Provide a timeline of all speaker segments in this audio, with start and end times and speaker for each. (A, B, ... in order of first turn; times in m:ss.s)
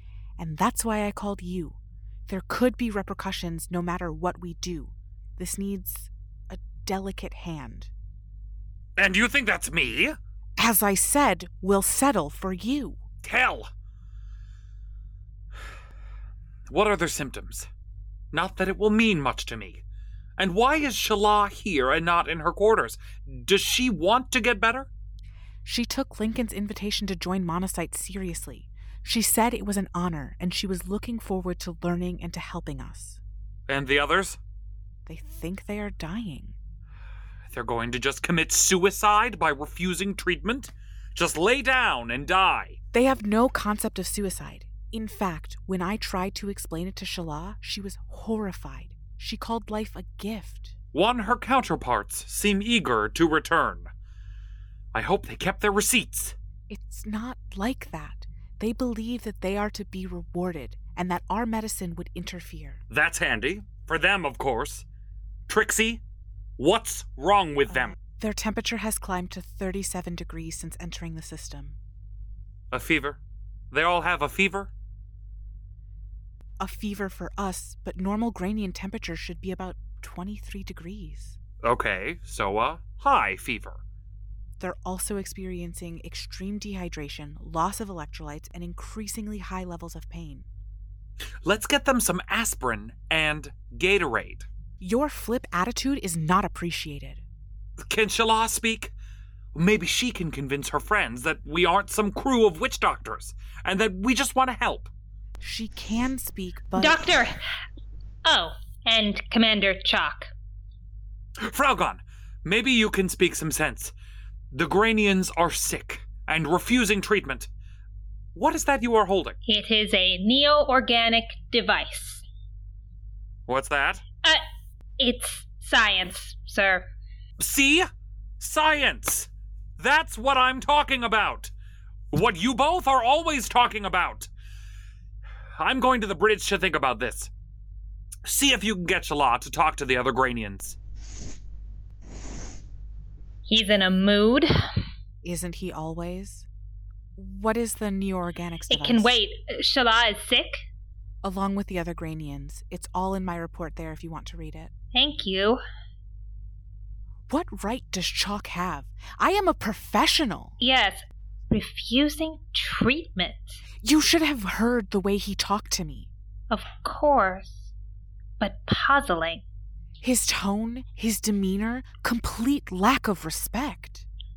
0:00.4-0:07.9 A
0:09.0-0:10.2 B
0:10.6-0:13.0 A
0:13.2-0:13.7 B
0:16.7-0:17.7 B
0:18.3-0:19.8 B
0:20.4-0:24.9 B
0:25.6-0:33.2 A
0:33.7-0:34.4 B
0:35.0-0:36.5 A
0:37.5-0:42.8 B
0:42.9-0:50.7 A
0:50.9-0:53.9 B
0:54.9-0:56.3 B
0:56.7-1:02.8 A
1:02.9-1:04.8 B
1:05.5-1:06.0 B
1:06.6-1:07.9 B
1:07.7-1:11.8 A
1:12.7-1:13.2 B
1:13.7-1:14.7 B
1:16.6-1:21.4 A
1:21.6-1:23.8 B
1:24.6-1:30.4 A
1:31.4-1:34.5 B
1:34.8-1:37.2 A
1:37.8-1:38.9 B
1:39.5-1:44.9 B
1:45.4-1:47.1 A
1:46.8-1:47.4 C
1:48.2-1:50.3 C
1:51.4-1:53.9 B
1:54.5-1:57.5 B
1:58.3-1:59.4 B
1:59.4-2:02.2 C
2:03.5-2:04.0 B
2:05.0-2:06.8 C
2:07.4-2:07.9 B
2:08.4-2:11.5 B
2:12.1-2:14.3 B
2:15.6-2:17.3 B
2:18.2-2:20.8 B
2:23.5-2:24.5 C
2:25.2-2:26.4 A
2:27.2-2:29.2 A
2:28.7-2:30.6 C
2:31.2-2:34.7 A
2:34.9-2:35.6 C
2:37.3-2:40.5 A
2:40.6-2:43.6 C
2:43.8-2:46.1 A
2:46.5-2:47.7 C
2:48.4-2:49.4 C
2:50.0-2:54.0 A